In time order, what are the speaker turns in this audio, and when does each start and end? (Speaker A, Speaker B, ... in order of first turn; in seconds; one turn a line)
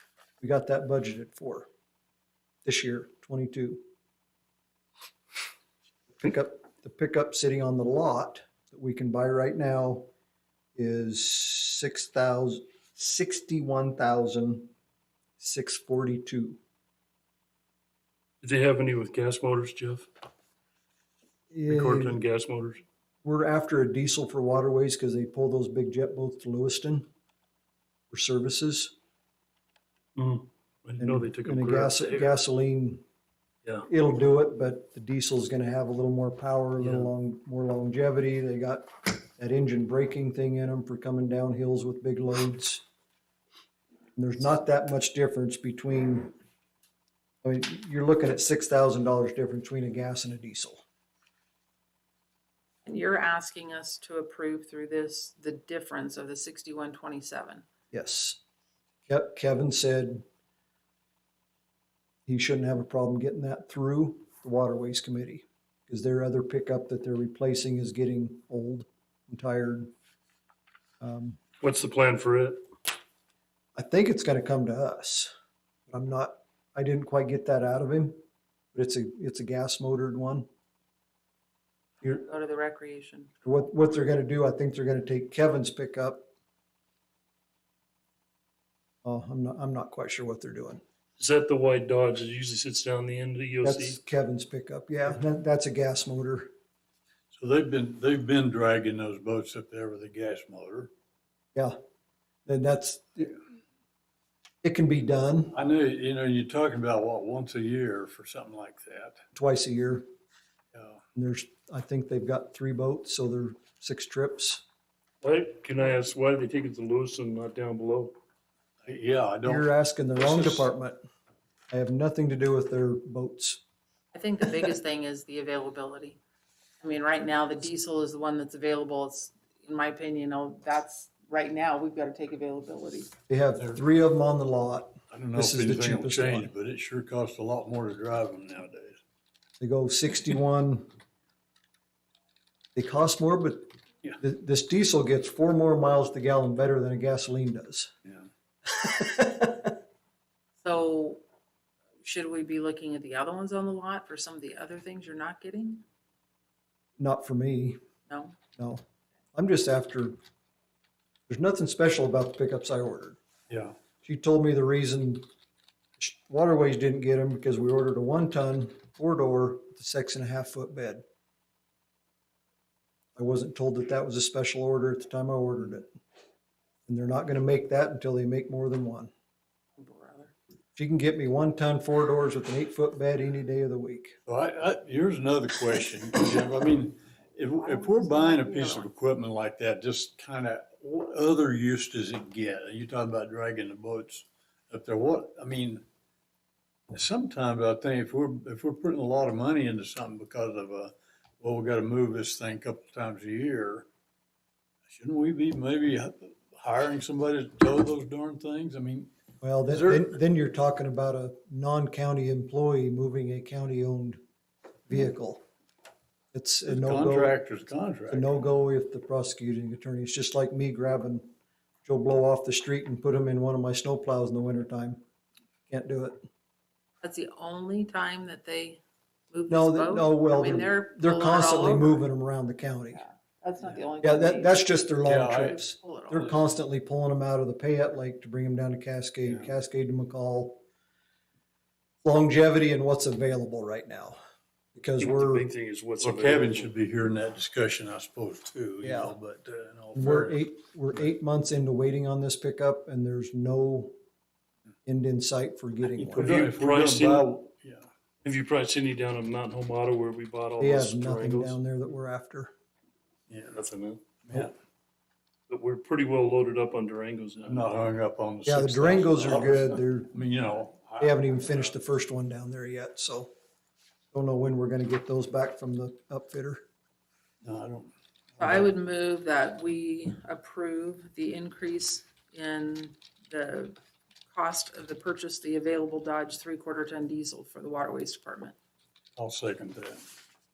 Speaker A: 0.4-1.7
Speaker A: 2.6-3.8
Speaker A: 6.2-10.1
Speaker A: 10.8-14.7
Speaker A: 15.4-16.6
Speaker B: 18.4-20.1
Speaker A: 21.5-22.2
Speaker B: 21.7-22.8
Speaker A: 23.2-27.1
Speaker A: 28.1-28.9
Speaker B: 30.2-32.3
Speaker A: 31.0-33.0
Speaker A: 33.9-42.8
Speaker B: 36.8-37.1
Speaker A: 44.2-46.3
Speaker A: 47.4-50.8
Speaker C: 52.9-57.6
Speaker A: 57.9-58.4
Speaker A: 59.1-60.2
Speaker A: 62.3-69.9
Speaker A: 71.0-71.4
Speaker B: 71.6-72.6
Speaker A: 73.8-75.3
Speaker A: 75.9-78.2
Speaker A: 78.7-80.5
Speaker C: 82.0-83.3
Speaker A: 83.4-86.3
Speaker A: 89.0-90.8
Speaker B: 91.2-94.0
Speaker A: 93.6-96.5
Speaker D: 97.3-100.9
Speaker A: 102.5-103.4
Speaker A: 104.6-105.5
Speaker D: 105.5-109.2
Speaker A: 109.3-110.1
Speaker D: 110.7-111.0
Speaker A: 111.2-114.6
Speaker B: 115.2-118.1
Speaker D: 118.8-120.7
Speaker A: 119.4-121.0
Speaker A: 121.7-123.6
Speaker C: 124.1-126.2
Speaker C: 126.8-133.1
Speaker A: 133.3-136.5
Speaker D: 135.1-139.0
Speaker A: 139.6-140.9
Speaker A: 142.8-147.9
Speaker A: 148.7-149.7
Speaker C: 150.6-151.2
Speaker C: 152.0-155.8
Speaker A: 157.0-157.8
Speaker C: 158.1-158.4
Speaker A: 158.6-158.8
Speaker A: 159.3-160.2
Speaker A: 161.3-163.2
Speaker D: 163.5-163.7
Speaker A: 164.0-165.3
Speaker A: 166.0-171.0
Speaker A: 173.2-175.9
Speaker A: 176.9-179.1
Speaker C: 179.8-180.3
Speaker A: 180.8-184.2
Speaker D: 184.3-195.8
Speaker C: 187.5-188.9
Speaker D: 196.9-203.9
Speaker D: 204.9-209.1
Speaker A: 209.4-214.2
Speaker D: 209.7-210.1
Speaker A: 214.9-215.4
Speaker A: 216.3-217.3
Speaker D: 216.7-218.4
Speaker A: 218.1-221.3
Speaker A: 221.8-225.0
Speaker A: 225.7-226.2
Speaker C: 227.0-228.8
Speaker C: 229.3-232.1
Speaker A: 229.5-233.0
Speaker C: 232.9-234.7
Speaker A: 234.0-240.6
Speaker D: 235.1-235.6
Speaker C: 235.3-236.4
Speaker D: 239.3-239.5
Speaker A: 242.0-244.2
Speaker A: 244.7-245.5
Speaker B: 245.0-246.7
Speaker D: 246.0-250.5
Speaker A: 248.8-249.2
Speaker A: 249.9-253.9
Speaker A: 254.9-256.5
Speaker D: 256.1-257.9
Speaker B: 256.1-257.3
Speaker B: 258.2-261.6
Speaker A: 260.6-262.5
Speaker B: 263.5-264.0
Speaker D: 264.2-264.5
Speaker B: 265.5-267.7
Speaker D: 267.5-271.7
Speaker A: 268.4-270.1
Speaker A: 271.0-273.3
Speaker A: 274.1-276.6
Speaker D: 277.4-278.7
Speaker C: 278.4-283.8
Speaker C: 284.3-288.6
Speaker D: 289.2-290.0